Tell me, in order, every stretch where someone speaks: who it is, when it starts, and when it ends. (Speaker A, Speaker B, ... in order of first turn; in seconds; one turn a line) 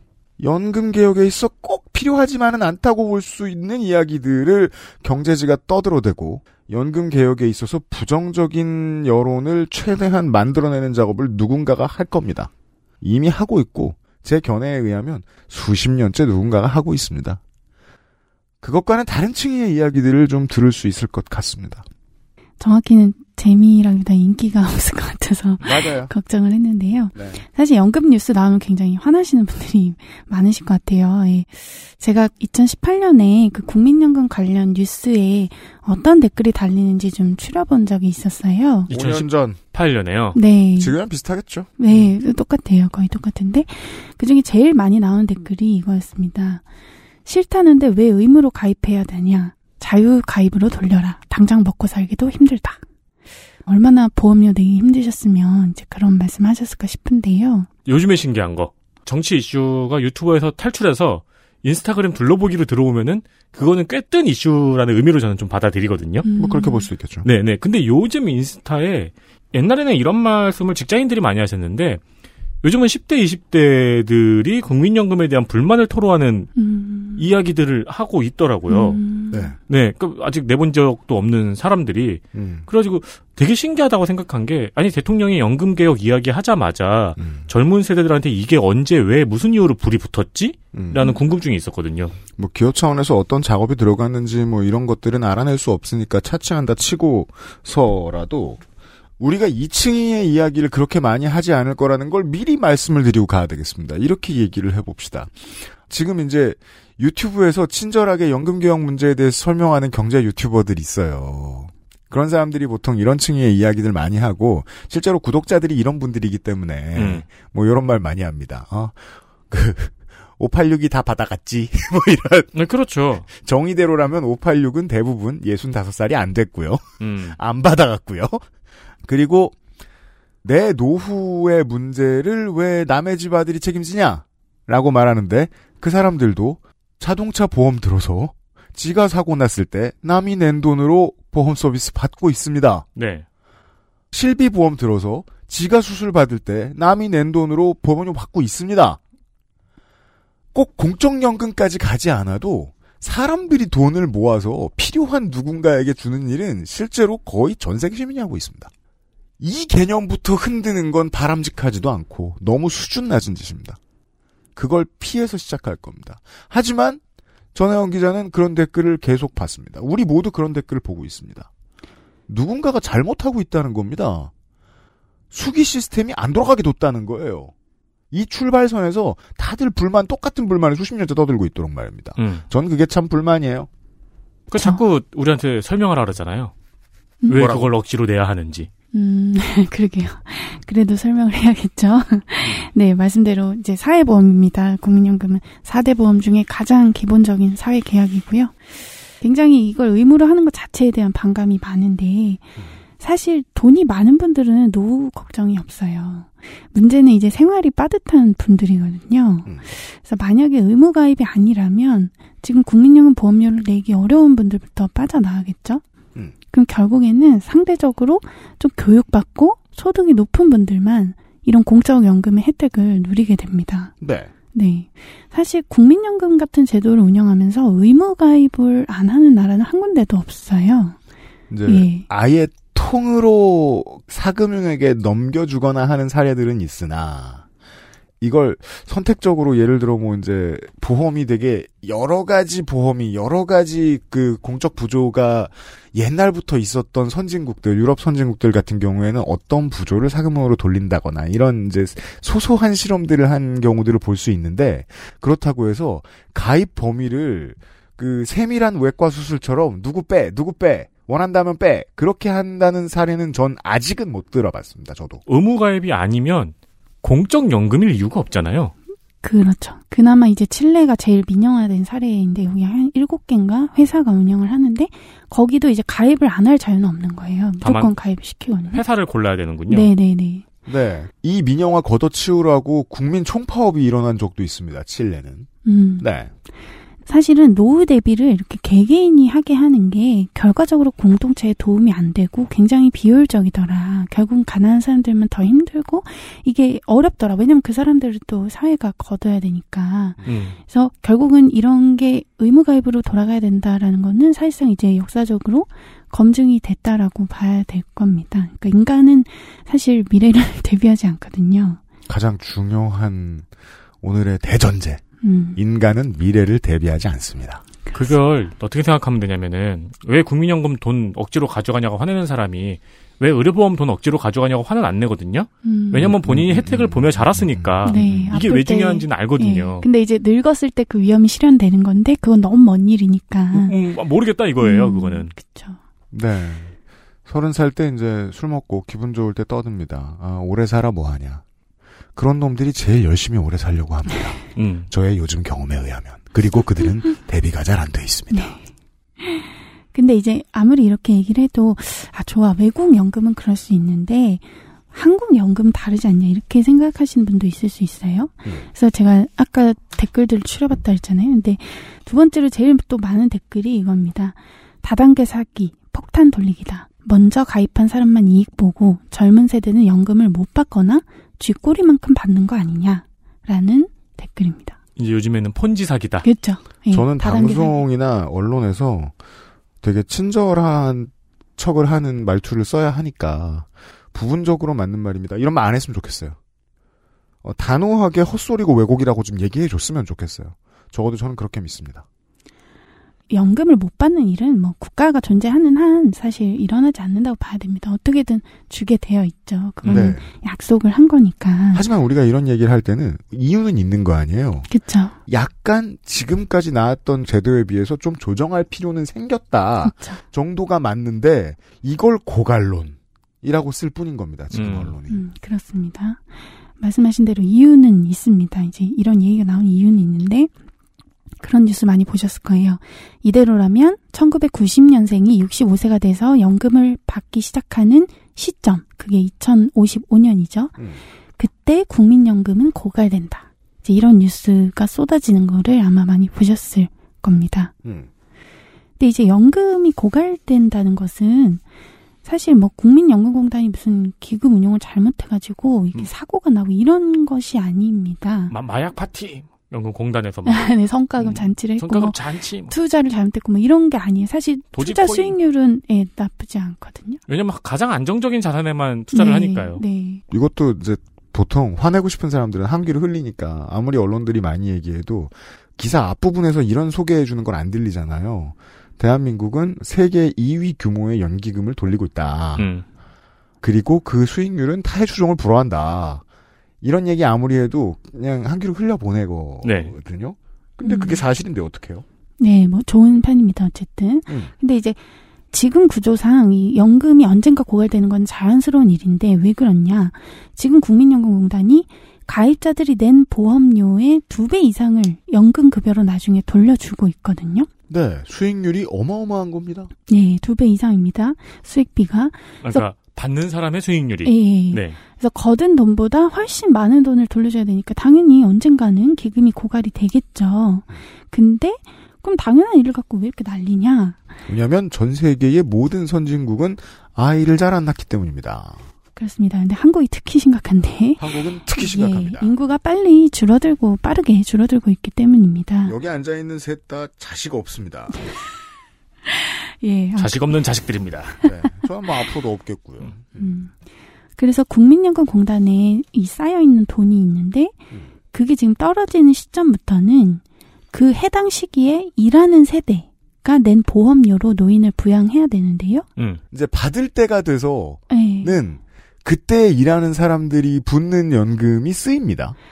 Speaker A: 0.4-17.4
Speaker A: 18.6-21.9
Speaker B: 22.6-38.9
Speaker A: 25.6-26.1
Speaker A: 27.1-27.4
Speaker A: 38.9-39.6
Speaker C: 38.9-40.4
Speaker B: 40.4-41.0
Speaker A: 40.8-42.1
Speaker B: 41.8-46.6
Speaker B: 47.2-52.8
Speaker B: 53.7-57.7
Speaker C: 57.9-66.3
Speaker B: 66.2-66.9
Speaker A: 66.4-67.3
Speaker C: 67.2-72.0
Speaker C: 72.6-76.5
Speaker B: 76.6-77.2
Speaker C: 77.2-79.0
Speaker B: 78.7-79.5
Speaker C: 79.7-92.1
Speaker A: 82.3-82.7
Speaker A: 87.2-87.5
Speaker A: 90.7-91.0
Speaker A: 92.3-98.6
Speaker A: 99.2-122.5
Speaker C: 117.0-117.2
Speaker C: 122.5-123.3
Speaker A: 123.3-128.4
Speaker C: 127.0-127.4
Speaker A: 129.1-129.6
Speaker A: 130.4-142.9
Speaker C: 143.0-143.2
Speaker A: 144.1-149.0
Speaker A: 150.5-158.7
Speaker A: 159.4-163.8
Speaker A: 164.6-167.0
Speaker A: 167.5-171.5
Speaker A: 172.3-174.3
Speaker A: 175.3-177.5
Speaker A: 178.1-183.7
Speaker C: 182.2-182.4
Speaker C: 184.5-186.5
Speaker B: 184.6-184.8
Speaker C: 187.3-188.7
Speaker A: 187.3-187.7
Speaker B: 188.9-198.6
Speaker B: 199.2-215.8
Speaker B: 216.5-223.9
Speaker A: 224.0-224.3
Speaker B: 224.5-231.0
Speaker A: 231.5-237.4
Speaker B: 231.7-232.1
Speaker A: 238.2-265.2
Speaker C: 265.3-268.7
Speaker B: 269.2-278.8
Speaker C: 277.6-277.9
Speaker C: 278.7-279.9
Speaker B: 279.7-280.4
Speaker A: 280.7-286.3
Speaker B: 285.6-286.1
Speaker B: 287.1-311.8
Speaker A: 300.2-300.5
Speaker C: 300.2-300.6
Speaker A: 312.1-313.5
Speaker A: 314.0-315.0
Speaker B: 315.2-315.6
Speaker A: 315.6-317.6
Speaker C: 317.9-329.9
Speaker B: 325.6-326.1
Speaker A: 326.2-328.4
Speaker B: 327.9-333.8
Speaker C: 333.5-335.3
Speaker B: 334.6-335.8
Speaker A: 336.1-336.7
Speaker A: 337.2-341.4
Speaker A: 342.2-348.6
Speaker C: 344.6-344.9
Speaker B: 348.3-348.6
Speaker B: 349.2-374.8
Speaker C: 375.0-376.3
Speaker B: 376.2-377.8
Speaker A: 376.9-379.1
Speaker A: 379.8-386.4
Speaker A: 387.4-392.1
Speaker B: 393.3-401.9
Speaker A: 399.9-400.3
Speaker A: 401.7-404.7
Speaker B: 404.7-405.2
Speaker A: 405.3-415.2
Speaker B: 409.8-410.2
Speaker C: 414.5-414.9
Speaker B: 415.1-416.2
Speaker B: 416.8-420.5
Speaker B: 421.4-430.8
Speaker A: 430.8-431.0
Speaker B: 431.4-437.7
Speaker B: 439.0-441.6
Speaker B: 442.2-448.5
Speaker C: 448.5-450.7
Speaker B: 450.5-457.2
Speaker C: 451.2-452.7
Speaker C: 454.8-455.4
Speaker C: 457.3-459.8
Speaker B: 459.1-460.2
Speaker A: 460.3-472.7
Speaker C: 472.6-472.9
Speaker A: 473.6-476.2
Speaker A: 476.8-482.1
Speaker C: 479.6-479.9
Speaker B: 480.8-481.2
Speaker B: 482.4-485.0
Speaker B: 485.5-497.7
Speaker A: 497.9-499.9
Speaker B: 500.1-502.9
Speaker C: 502.6-505.0
Speaker B: 504.2-514.2
Speaker A: 514.5-518.8
Speaker B: 519.2-526.0
Speaker A: 521.2-522.5
Speaker A: 525.8-528.2
Speaker B: 529.3-530.5
Speaker C: 530.2-531.4
Speaker A: 531.4-533.5
Speaker B: 533.4-533.7
Speaker B: 534.4-537.7
Speaker B: 538.3-540.4
Speaker B: 540.9-546.1
Speaker A: 546.5-552.6
Speaker B: 548.1-548.6